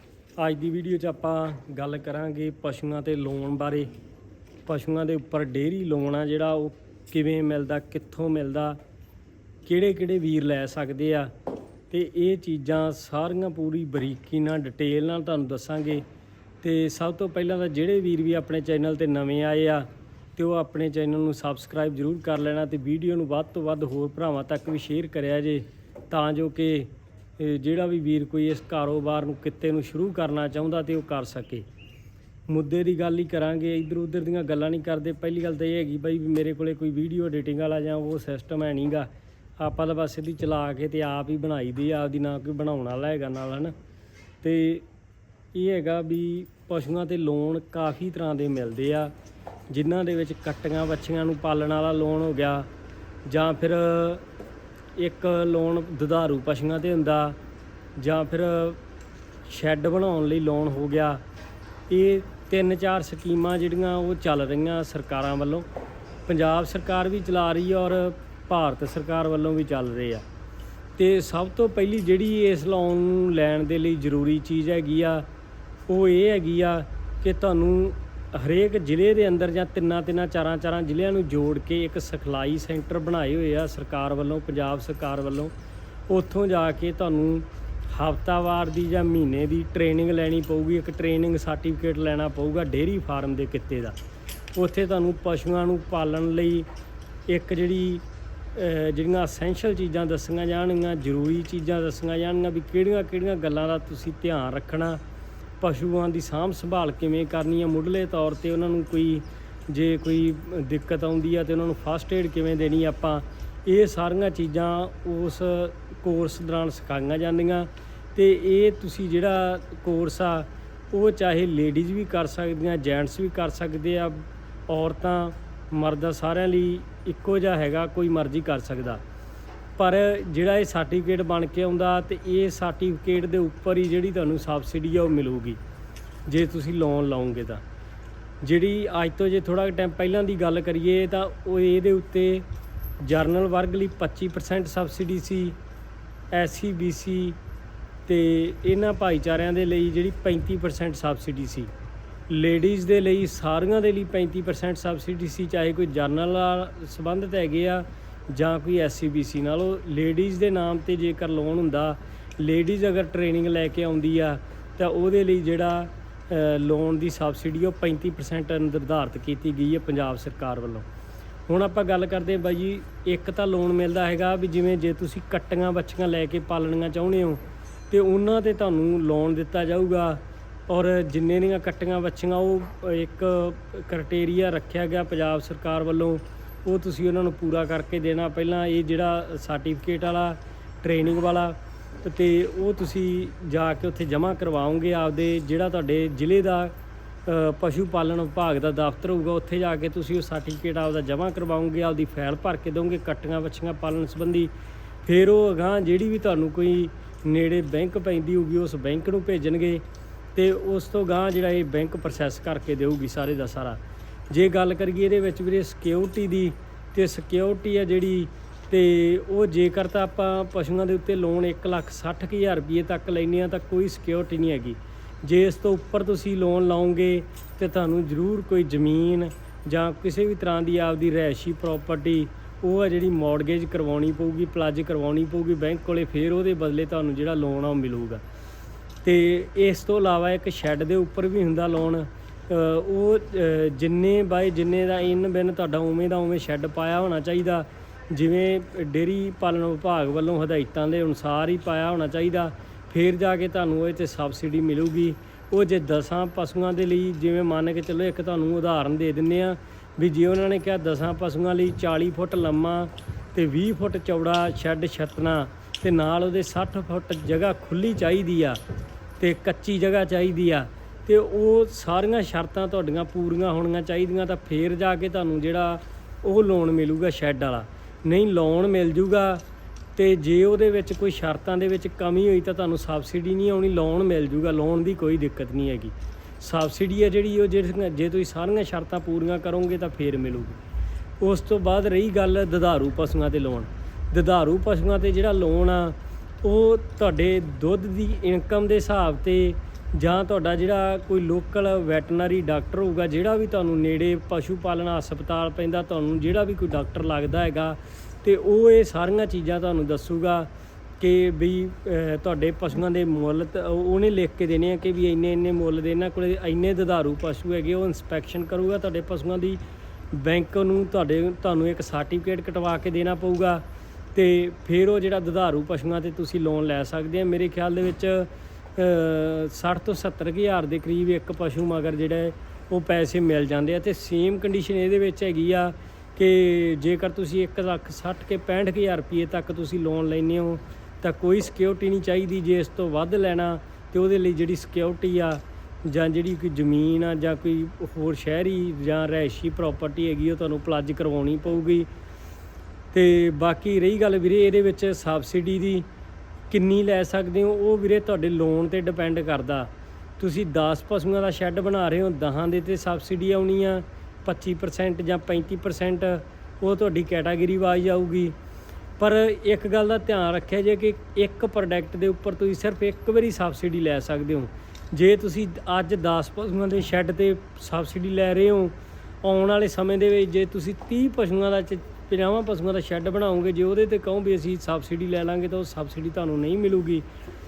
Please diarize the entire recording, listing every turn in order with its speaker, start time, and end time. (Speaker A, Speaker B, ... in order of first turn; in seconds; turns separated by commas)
Speaker A: 0.4-3.9, Speaker A: 4.7-8.8, Speaker A: 9.6-11.3, Speaker A: 11.9-16.0, Speaker A: 16.6-31.7, Speaker A: 32.5-43.7, Speaker A: 44.4-44.8, Speaker A: 45.5-49.1, Speaker A: 49.7-52.7, Speaker A: 53.2-54.2, Speaker A: 55.0-57.4, Speaker A: 58.0-58.8, Speaker A: 59.5-61.2, Speaker A: 61.9-65.7, Speaker A: 66.3-70.2, Speaker A: 71.0-75.3, Speaker A: 75.9-85.5, Speaker A: 86.1-94.0, Speaker A: 94.5-96.7, Speaker A: 97.3-105.0, Speaker A: 105.6-129.0, Speaker A: 129.8-135.6, Speaker A: 136.2-137.6, Speaker A: 138.4-142.4, Speaker A: 143.0-145.6, Speaker A: 146.3-147.4, Speaker A: 148.1-151.7, Speaker A: 152.3-170.8, Speaker A: 171.5-196.7, Speaker A: 197.2-204.5, Speaker A: 205.0-209.8, Speaker A: 210.3-238.2, Speaker A: 239.0-268.6, Speaker A: 269.2-279.4, Speaker A: 279.9-290.6, Speaker A: 291.2-310.5, Speaker A: 311.0-319.6, Speaker A: 320.1-323.6, Speaker A: 324.1-351.9, Speaker A: 352.9-355.9, Speaker A: 356.5-368.3, Speaker A: 369.0-387.0